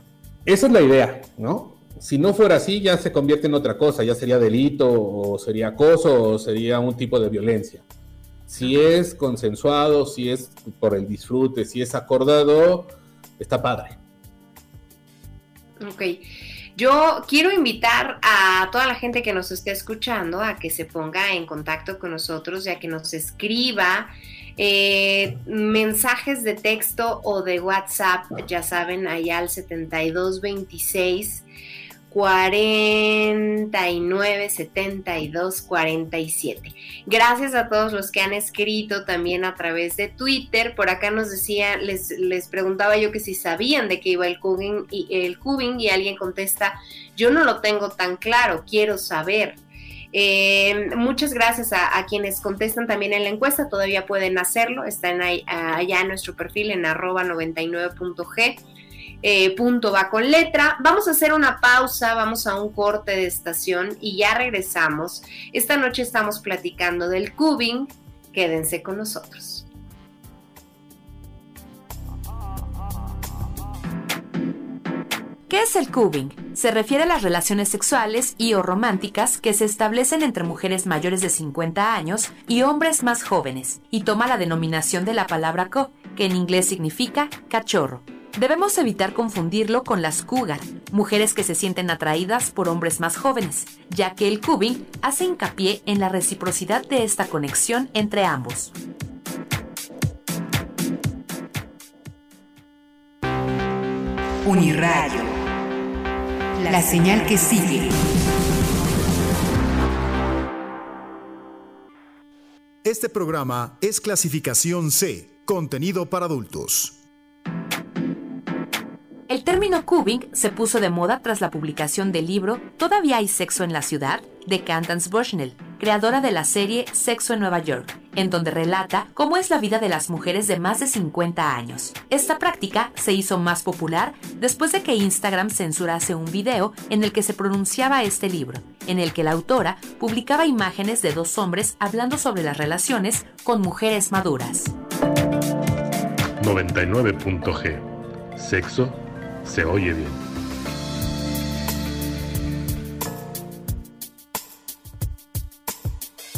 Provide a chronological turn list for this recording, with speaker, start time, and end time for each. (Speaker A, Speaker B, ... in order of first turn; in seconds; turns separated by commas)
Speaker A: 0.5-7.8, Speaker A: 8.5-14.0, Speaker B: 15.8-31.4, Speaker B: 32.1-49.6, Speaker B: 50.1-58.6, Speaker B: 59.2-69.7, Speaker C: 75.5-98.7, Speaker D: 104.4-105.3, Speaker D: 106.6-107.9, Speaker E: 112.8-117.0, Speaker C: 119.3-144.7, Speaker F: 146.4-150.3